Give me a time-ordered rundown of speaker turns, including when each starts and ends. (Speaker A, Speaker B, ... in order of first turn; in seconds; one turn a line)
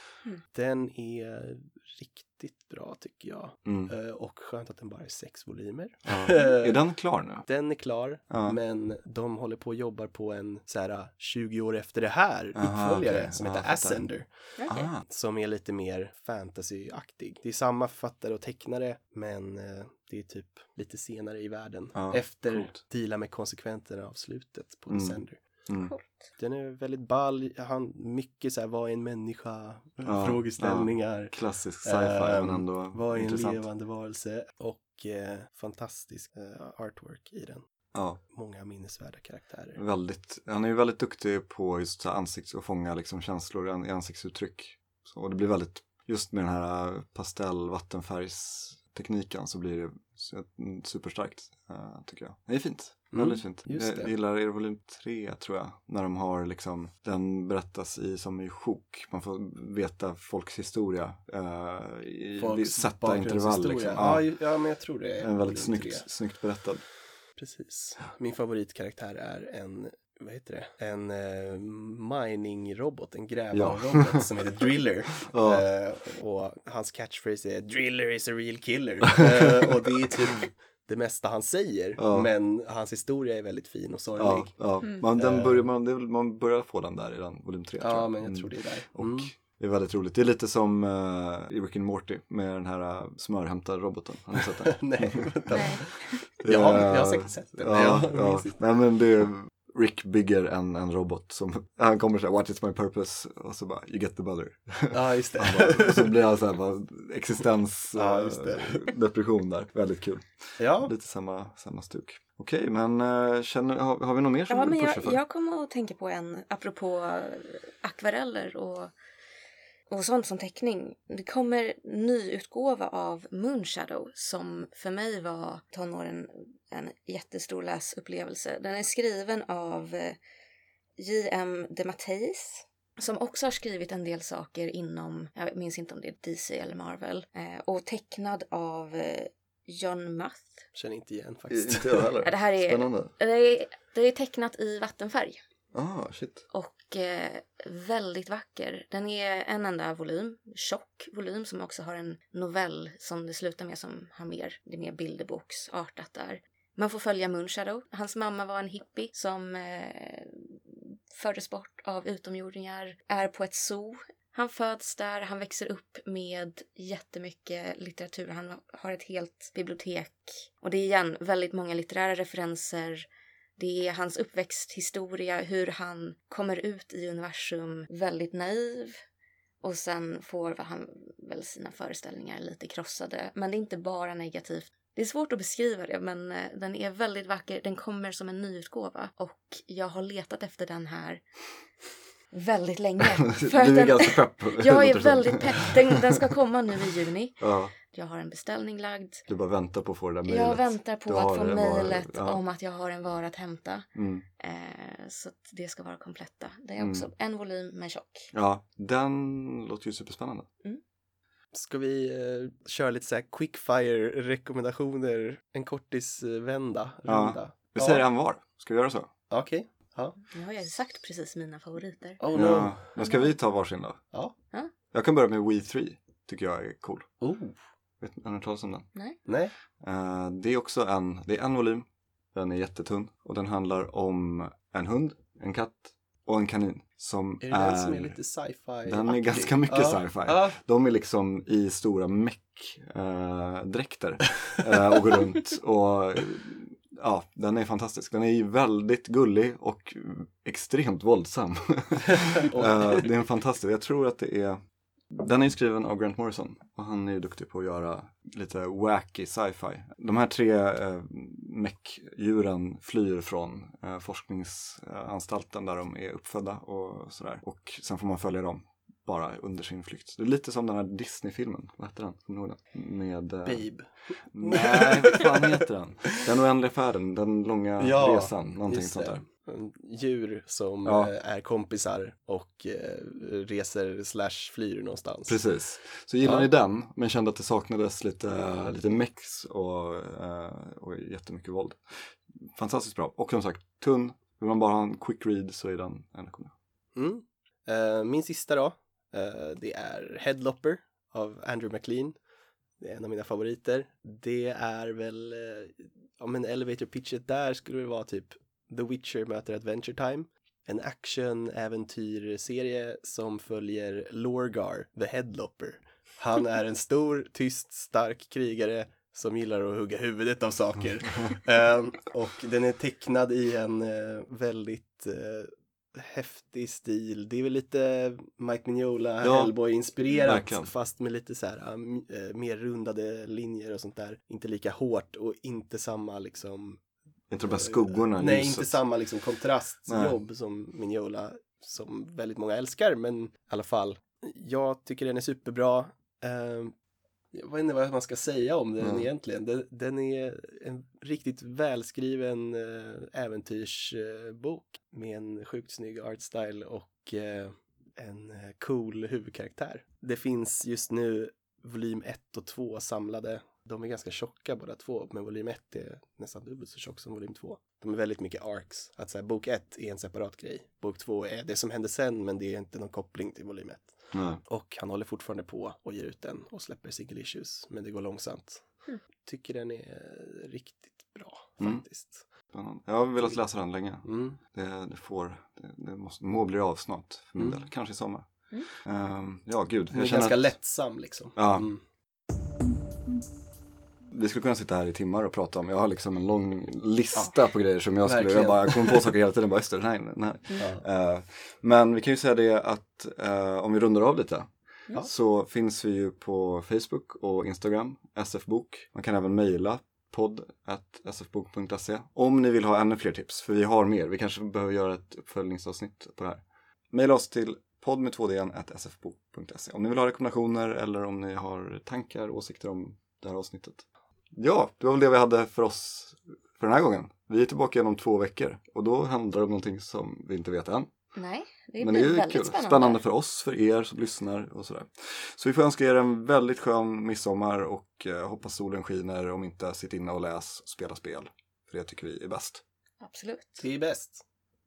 Speaker A: 0.5-25.4
Speaker B: 3.7-3.9
Speaker B: 6.1-7.5
Speaker B: 8.3-8.6
Speaker B: 12.6-14.1
Speaker C: 14.6-14.9
Speaker B: 14.7-15.1
Speaker B: 21.9-22.8
Speaker B: 24.9-25.9
Speaker C: 25.7-26.2
Speaker A: 26.4-37.6
Speaker B: 30.0-33.6
Speaker B: 37.9-38.2
Speaker A: 38.3-39.8
Speaker B: 39.8-64.3
Speaker A: 53.1-54.1
Speaker A: 62.4-66.1
Speaker B: 65.2-66.8
Speaker A: 67.4-84.6
Speaker B: 73.5-74.2
Speaker B: 75.3-75.7
Speaker B: 79.2-79.5
Speaker B: 82.0-82.3
Speaker B: 84.2-95.6
Speaker A: 85.2-85.7
Speaker A: 87.8-89.3
Speaker A: 94.5-98.6
Speaker C: 95.5-95.9
Speaker B: 96.4-115.2
Speaker A: 104.9-106.2
Speaker A: 108.0-108.9
Speaker A: 110.6-110.9
Speaker C: 114.5-118.9
Speaker C: 119.9-130.2
Speaker C: 131.0-140.7
Speaker A: 140.8-142.2
Speaker B: 141.5-143.1
Speaker C: 142.2-145.4
Speaker B: 145.7-146.4
Speaker C: 146.5-179.0
Speaker C: 179.6-191.2
Speaker C: 192.3-199.2
Speaker B: 193.2-196.0
Speaker B: 197.4-197.7
Speaker B: 199.3-202.4
Speaker C: 200.3-208.3
Speaker B: 203.9-204.2
Speaker B: 206.8-207.1
Speaker B: 208.3-210.5
Speaker A: 211.5-218.1
Speaker B: 217.1-219.1
Speaker A: 219.3-220.2
Speaker C: 220.3-222.2
Speaker A: 222.2-222.8
Speaker B: 222.3-224.0
Speaker C: 223.0-223.3
Speaker B: 224.9-227.1
Speaker A: 227.2-227.6
Speaker B: 228.0-228.9
Speaker A: 229.3-229.5
Speaker B: 229.8-238.2
Speaker A: 237.4-240.6
Speaker B: 238.8-254.6
Speaker A: 252.1-253.1
Speaker B: 255.1-273.7
Speaker A: 273.4-276.3
Speaker B: 274.3-279.2
Speaker A: 277.8-285.4
Speaker B: 280.8-281.1
Speaker B: 285.3-296.5
Speaker A: 286.2-286.5
Speaker A: 296.9-302.2
Speaker A: 302.8-336.8
Speaker B: 329.2-329.5
Speaker B: 330.2-330.7
Speaker B: 337.3-338.8
Speaker A: 337.4-346.7
Speaker B: 339.9-340.2
Speaker A: 347.3-382.3
Speaker B: 348.8-349.1
Speaker B: 374.1-374.4
Speaker B: 382.5-390.6
Speaker A: 384.0-384.4
Speaker A: 387.4-387.6
Speaker A: 389.9-391.8
Speaker B: 391.4-391.7
Speaker B: 394.1-430.9
Speaker A: 398.0-399.1
Speaker A: 400.6-400.9
Speaker C: 431.2-433.0
Speaker B: 431.8-442.6
Speaker C: 443.0-443.6
Speaker A: 443.6-444.2